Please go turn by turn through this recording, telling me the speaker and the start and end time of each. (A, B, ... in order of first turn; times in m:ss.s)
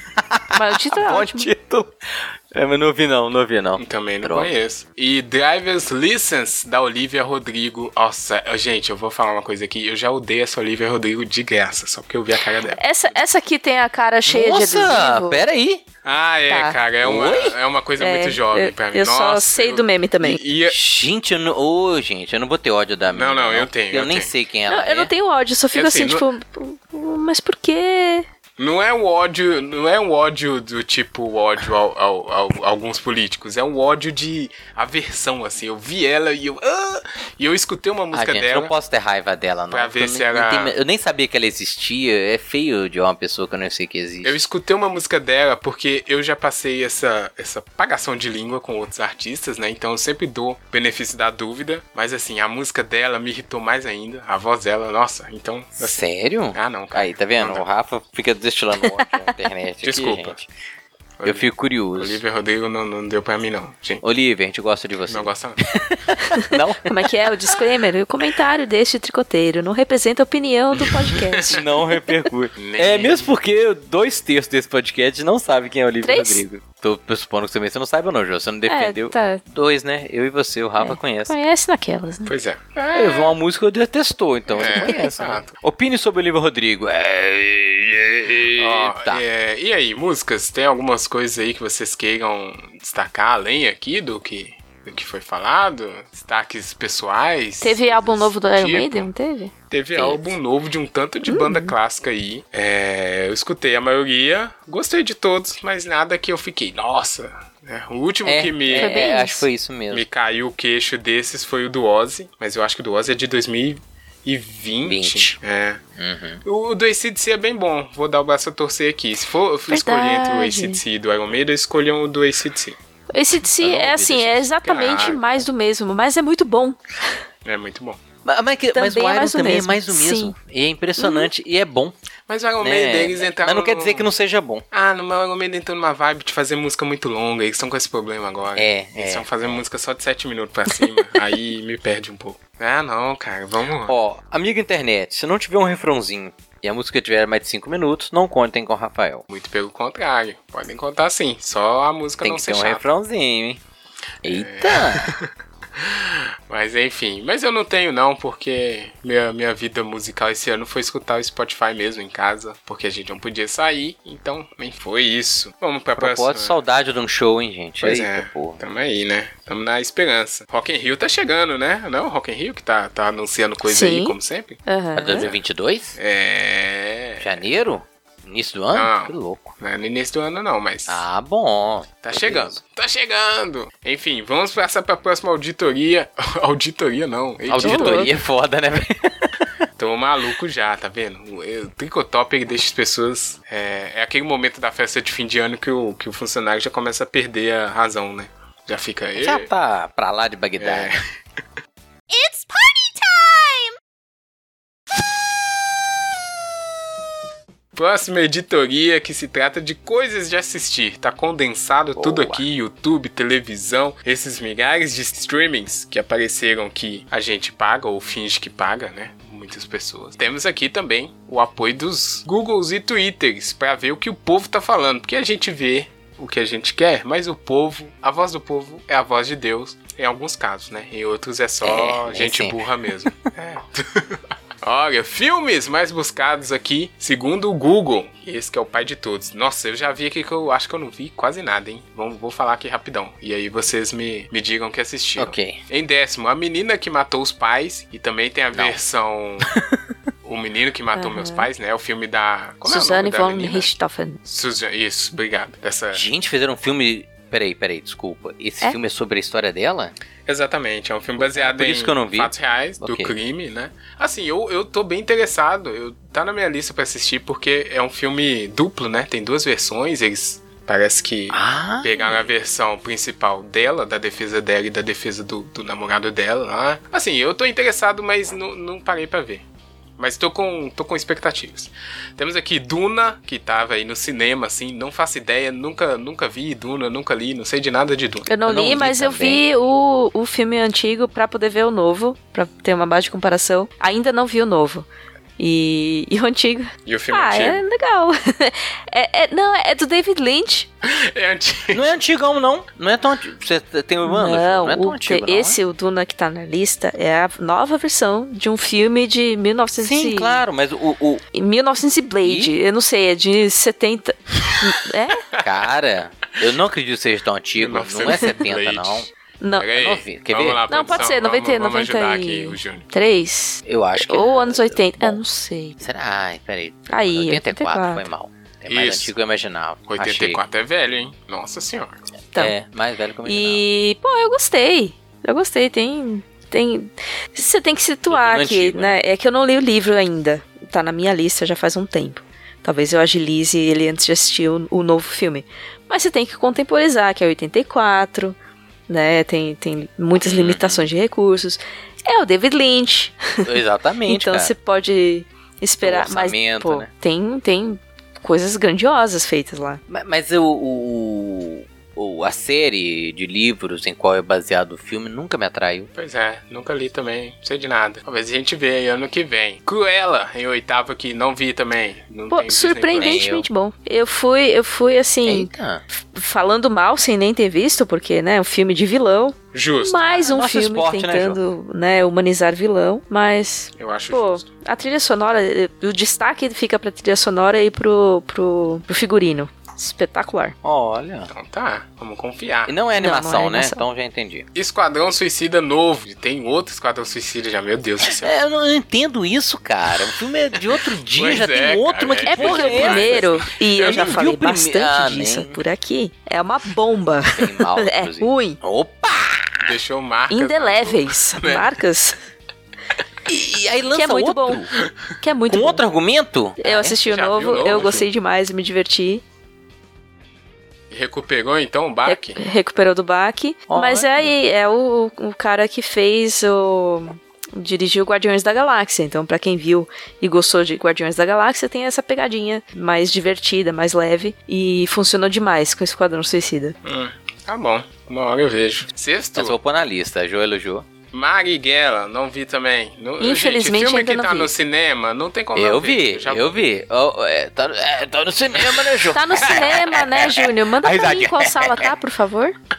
0:00.2-0:04.5 A
0:00.5-0:01.5 B
0:03.8-0:13.2 C
0:12.7-0:15.4 B
0:14.3-0:15.8 A
0:16.0-0:20.8 C
0:16.5-0:16.8 B
0:17.0-0:17.6 A
0:18.0-0:20.4 B
0:20.7-0:25.1 A
0:23.1-0:24.3 C
0:24.7-0:28.2 B
0:25.7-0:26.3 C
0:28.6-0:38.7 C
0:38.1-0:44.4 A
0:39.7-0:40.8 C
0:44.2-0:57.6 C
0:55.8-1:00.5 A
0:58.8-0:59.3 B
0:59.8-1:00.4 C
1:01.2-1:04.0 C
1:01.2-1:02.2 A
1:04.0-1:07.6 A
1:05.1-1:05.6 C
1:06.5-1:12.1 B
1:11.1-1:11.4 C
1:11.5-1:21.4 A
1:12.6-1:13.3 C
1:16.0-1:16.4 B
1:18.7-1:19.4 B
1:20.8-1:22.3 B
1:22.3-1:23.4 C
1:22.9-1:29.2 A
1:24.5-1:25.5 C
1:24.7-1:25.1 B
1:28.6-1:39.1 C
1:37.6-1:39.5 B
1:39.7-1:49.1 C
1:40.0-1:40.4 A
1:41.2-1:41.7 B
1:48.2-1:50.1 A
1:48.8-1:49.4 B
1:49.9-1:55.8 C
1:54.8-1:55.3 A
1:56.0-1:56.4 A
1:56.4-2:02.8 C
1:59.7-2:00.8 B
2:03.1-2:07.1 B
2:03.6-2:04.4 A
2:04.6-2:05.2 C
2:07.4-2:08.0 C
2:08.2-2:12.0 A
2:08.7-2:10.3 B
2:11.0-2:11.3 B
2:12.3-2:14.1 C
2:12.6-2:14.6 A
2:14.7-2:24.0 C
2:18.6-2:19.6 A
2:23.9-2:29.2 A
2:29.3-2:32.9 C
2:32.2-2:33.6 A
2:34.2-2:35.1 A
2:34.2-2:46.6 C
2:46.0-2:48.6 A
2:47.8-2:54.6 C
2:53.6-2:55.3 B
2:55.0-2:56.0 A
2:55.1-2:55.4 C
2:56.0-2:57.4 C
2:57.2-2:59.6 A
2:58.7-3:01.0 C
3:00.9-3:02.6 A
3:02.0-3:08.1 C
3:07.5-3:09.5 A
3:07.6-3:08.1 B
3:09.8-3:19.5 C
3:19.2-3:20.9 A
3:20.6-3:21.0 C
3:27.7-4:09.5 C
3:32.0-3:32.5 A
3:51.6-3:53.2 A
4:05.2-4:05.6 A
4:08.5-4:08.8 A
4:09.5-4:09.8 A
4:10.2-4:13.7 C
4:11.0-4:11.5 B
4:12.6-4:14.2 B
4:14.2-4:16.1 C
4:15.9-4:19.9 A
4:20.3-4:39.4 C
4:21.2-4:23.1 A
4:31.3-4:32.3 A
4:40.0-4:48.3 C
4:48.3-4:54.9 B
4:48.4-4:49.4 A
4:55.4-5:00.7 B
4:56.8-4:57.6 C
5:00.8-5:02.0 C
5:01.7-5:05.6 A
5:04.0-5:10.4 B
5:09.8-5:11.2 A
5:11.3-5:15.2 B
5:12.2-5:12.5 A
5:15.4-5:19.1 A
5:17.6-5:22.8 C
5:18.1-5:18.4 B
5:19.4-5:19.7 B
5:19.6-5:21.0 A
5:20.7-5:25.8 B
5:23.6-5:25.2 A
5:25.8-5:30.4 A
5:26.9-5:28.1 B
5:28.7-5:29.1 C
5:29.9-5:32.0 C
5:32.4-5:33.6 A
5:33.2-5:48.4 B
5:38.1-5:39.0 A
5:48.9-5:59.8 B
5:50.2-5:50.9 A
5:53.4-5:54.5 A
5:55.8-5:56.9 A
5:59.9-6:05.9 A
6:06.0-6:13.2 C
6:12.3-6:30.6 B
6:13.0-6:13.5 A
6:15.2-6:15.8 A
6:19.5-6:20.4 C
6:20.3-6:21.4 A
6:23.8-6:24.5 C
6:30.6-6:31.3 A
6:31.3-6:32.8 C
6:32.7-6:34.5 A
6:33.0-6:33.8 B
6:34.5-6:38.4 C
6:38.0-6:43.3 A
6:41.1-6:44.2 C
6:42.3-6:48.6 B
6:43.8-6:45.6 A
6:47.3-6:49.7 A
6:49.6-6:51.7 C
6:50.3-6:52.2 B
6:53.3-6:54.7 A
6:53.9-6:54.7 B
6:55.2-6:55.8 B
6:55.5-6:57.0 A
6:56.6-6:59.2 B
6:57.0-6:58.1 C
7:00.9-7:02.4 C
7:02.1-7:16.7 B
7:03.7-7:04.4 A
7:16.8-7:19.6 C
7:19.4-7:20.9 A
7:21.1-7:26.6 C
7:23.2-7:24.5 B
7:25.6-7:31.9 A
7:29.1-7:32.6 B